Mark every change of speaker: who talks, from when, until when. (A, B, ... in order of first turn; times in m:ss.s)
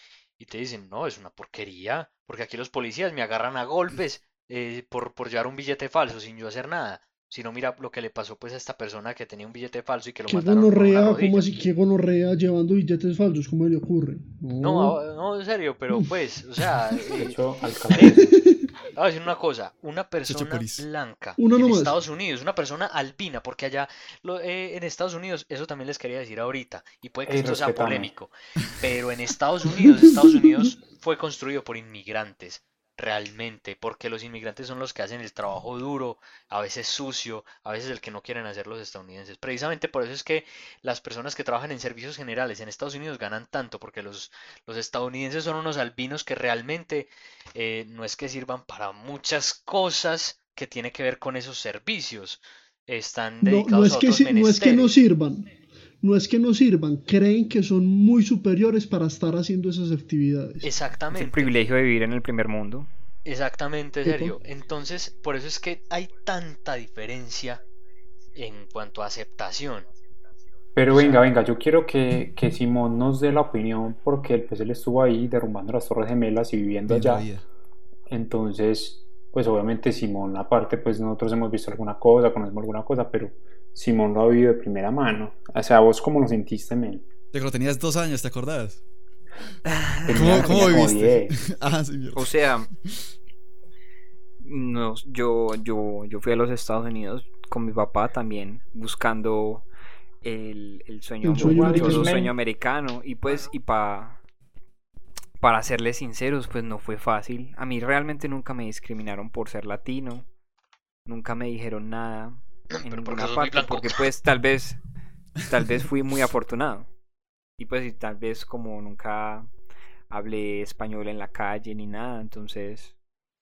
0:00.4-0:11.5 A
0:10.3-0:15.0 B
0:14.6-0:17.4 A
0:17.2-0:18.4 C
0:17.9-0:18.3 A
0:17.9-0:18.7 B
0:18.9-0:55.0 A
0:20.3-0:20.8 D
0:21.4-0:22.0 B
0:27.2-0:28.1 C
0:29.8-0:30.7 B
0:53.4-0:55.5 B
0:56.0-1:00.7 B
1:00.6-1:01.6 A
1:01.1-1:02.9 E
1:03.2-1:07.6 A
1:04.0-1:04.4 B
1:08.3-1:09.9 A
1:10.8-1:17.3 C
1:10.9-1:11.3 A
1:16.9-1:17.4 D
1:18.1-1:27.0 C
1:27.3-1:28.8 D
1:29.9-1:32.4 D
1:30.1-1:31.4 C
1:32.1-1:32.7 E
1:34.4-1:39.6 E
1:40.2-1:44.2 E
1:41.2-1:42.3 B
1:41.3-1:42.3 C
1:45.4-1:50.2 E
1:51.0-1:54.8 E
1:52.7-1:53.9 A
1:55.5-1:56.9 E
1:57.6-1:59.5 E
2:00.1-2:02.9 E